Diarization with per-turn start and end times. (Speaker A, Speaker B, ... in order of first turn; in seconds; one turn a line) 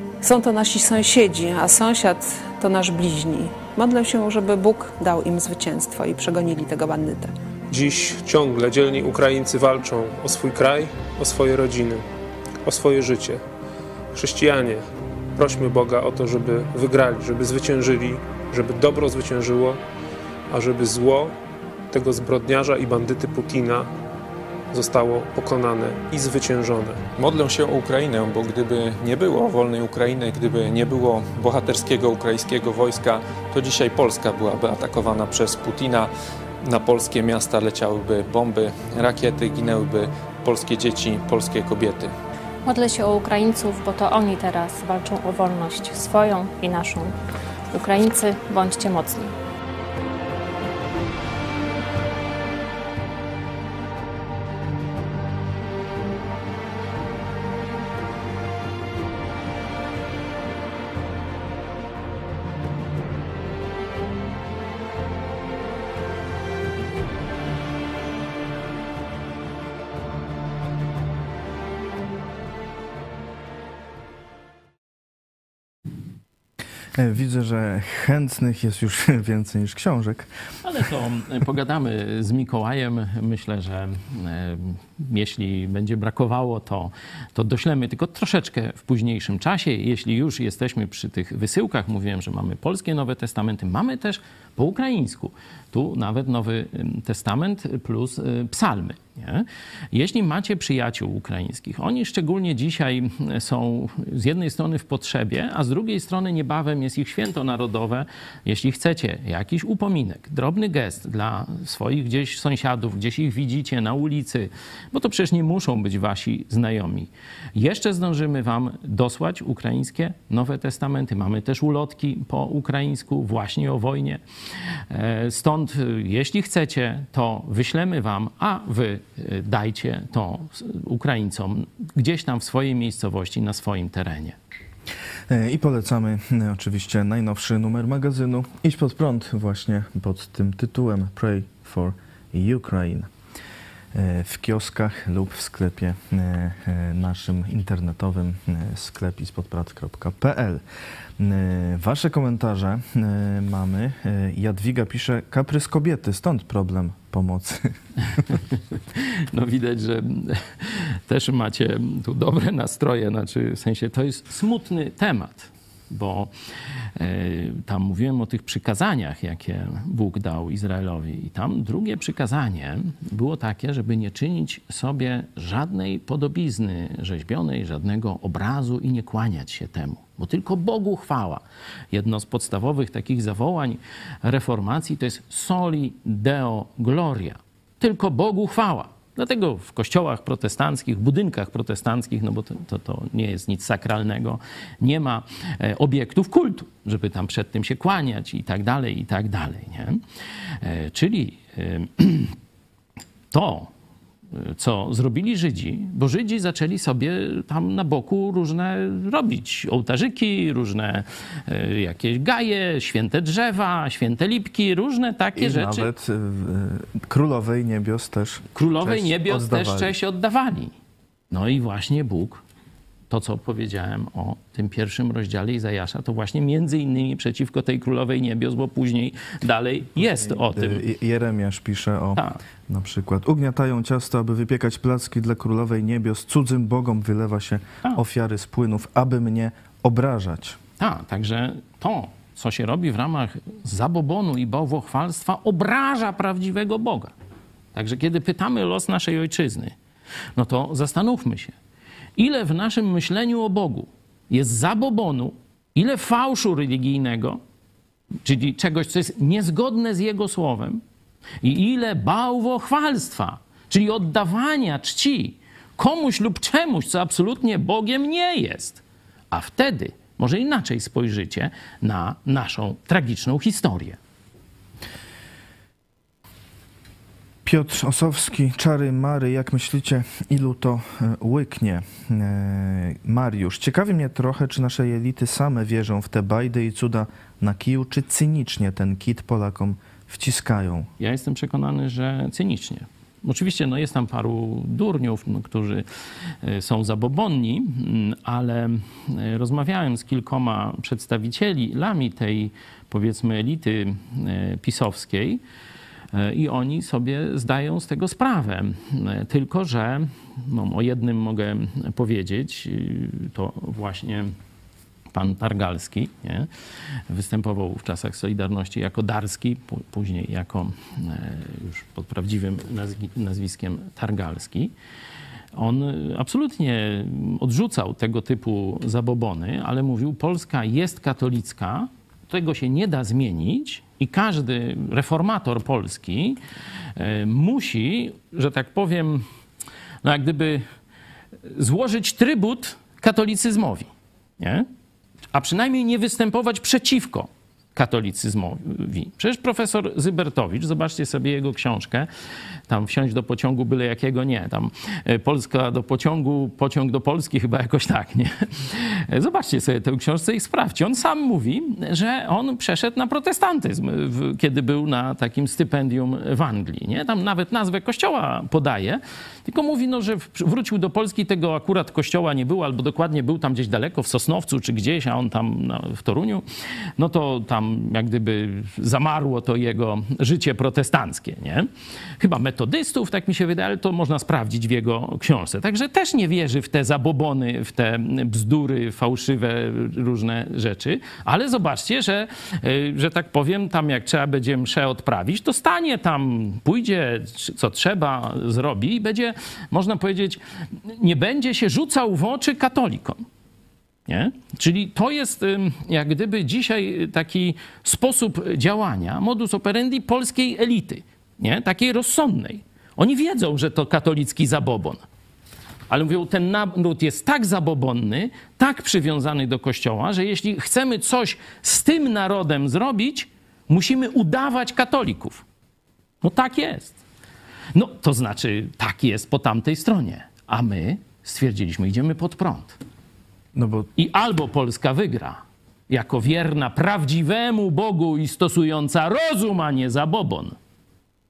Speaker A: 0.2-7.3
Speaker B: 7.7-12.0
Speaker B: 12.6-13.4
Speaker B: 14.1-14.8
Speaker B: 15.3-19.8
Speaker B: 20.5-21.3
Speaker B: 21.9-23.9
Speaker B: 24.7-27.1
Speaker C: 27.1-42.1
Speaker D: 42.6-47.1
Speaker D: 47.7-49.3
Speaker E: 77.0-80.3
Speaker F: 80.6-124.2
Speaker F: 124.9-134.4
Speaker E: 135.3-143.1
Speaker E: 143.9-150.6
Speaker E: 151.2-158.4
Speaker F: 158.9-166.3
Speaker F: 166.9-200.0
Speaker F: 200.6-202.3
Speaker F: 203.3-203.7
Speaker F: 204.3-215.9
Speaker E: 215.3-220.0
Speaker F: 218.5-220.7
Speaker F: 221.3-222.4
Speaker F: 223.1-230.8
Speaker E: 230.1-240.6
Speaker F: 240.8-247.1
Speaker F: 247.7-249.8
Speaker F: 250.3-251.5
Speaker F: 252.2-257.4
Speaker F: 258.2-260.8
Speaker F: 261.4-274.0
Speaker E: 277.4-290.9
Speaker F: 291.0-295.8
Speaker F: 296.4-305.4
Speaker F: 306.1-314.3
Speaker F: 315.1-316.5
Speaker F: 317.1-324.7
Speaker F: 325.5-336.4
Speaker F: 336.9-339.2
Speaker F: 340.0-340.6
Speaker F: 341.5-344.7
Speaker F: 345.3-352.1
Speaker F: 352.7-376.4
Speaker F: 377.0-381.7
Speaker F: 382.2-403.2
Speaker F: 404.1-415.0
Speaker F: 415.9-425.4
Speaker F: 426.2-427.0
Speaker F: 427.7-432.8
Speaker E: 433.5-433.9
Speaker F: 433.9-440.6